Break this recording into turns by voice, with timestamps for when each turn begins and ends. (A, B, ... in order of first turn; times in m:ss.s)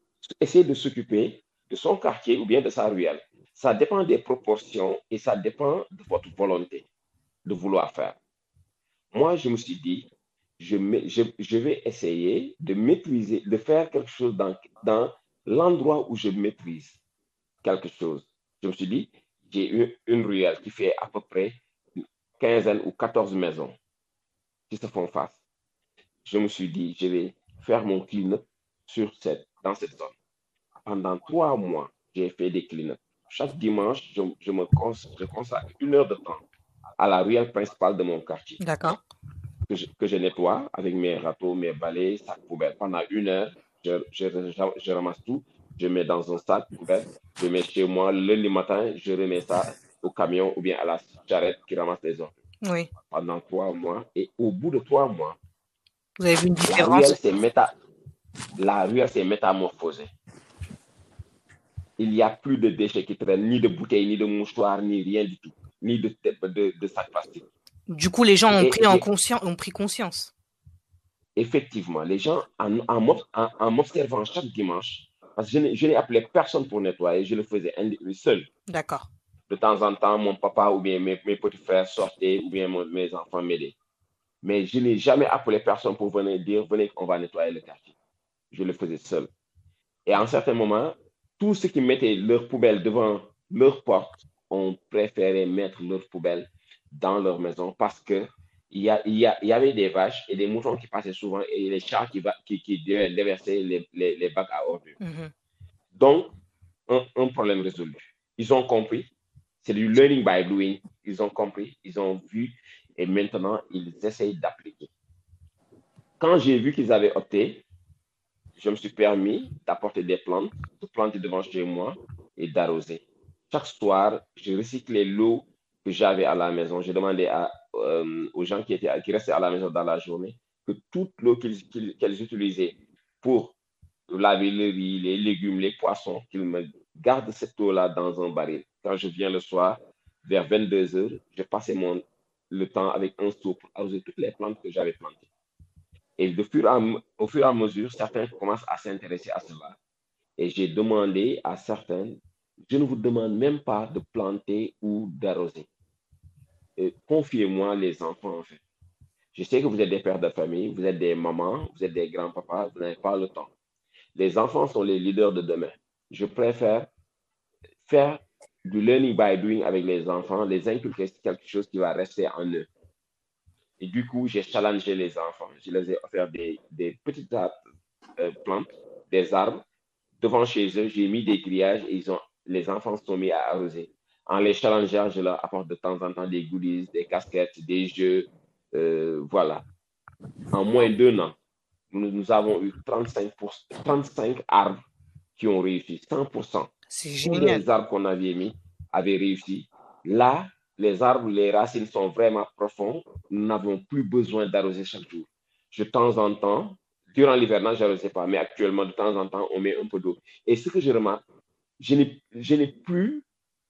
0:00.2-0:06.8 A
0:07.4-0:08.2 A
0:09.1-0:10.1 A
0:10.6-0:17.0 A
0:17.6-0:23.8 A
0:24.7-0:25.4 A
0:26.2-0:30.1 A
0:30.8-0:36.4 A
0:37.0-0:38.6 A
0:38.6-0:39.0 B
0:39.7-0:52.3 A
0:52.6-0:52.9 B
0:53.1-0:55.4 A
0:56.2-0:57.2 B
0:56.7-0:57.7 A
0:58.6-1:00.1 A
1:02.0-1:07.4 A
1:07.9-1:10.3 B
1:08.6-1:09.0 A
1:11.4-1:18.5 A
1:18.7-1:19.1 B
1:19.5-1:23.7 A
1:24.4-1:27.9 A
1:28.5-1:29.3 A
1:30.0-1:45.0 A
1:45.0-1:45.3 B
1:45.9-1:46.3 A
1:46.9-1:49.1 A
1:49.6-1:54.9 A
1:56.2-1:57.6 A
1:58.6-2:13.5 A
2:14.1-2:25.2 A
2:26.2-2:29.8 A
2:30.4-2:35.7 A
2:36.8-2:38.6 A
2:39.3-2:43.5 A
2:44.1-2:46.9 A
2:47.8-2:52.7 A
2:53.8-2:57.6 A
2:58.2-2:59.6 A
3:00.2-3:09.6 A
3:10.5-3:11.4 A
3:11.9-3:14.8 A
3:15.4-3:16.7 A
3:16.9-3:17.6 B
3:17.2-3:31.2 A
3:31.8-3:33.2 A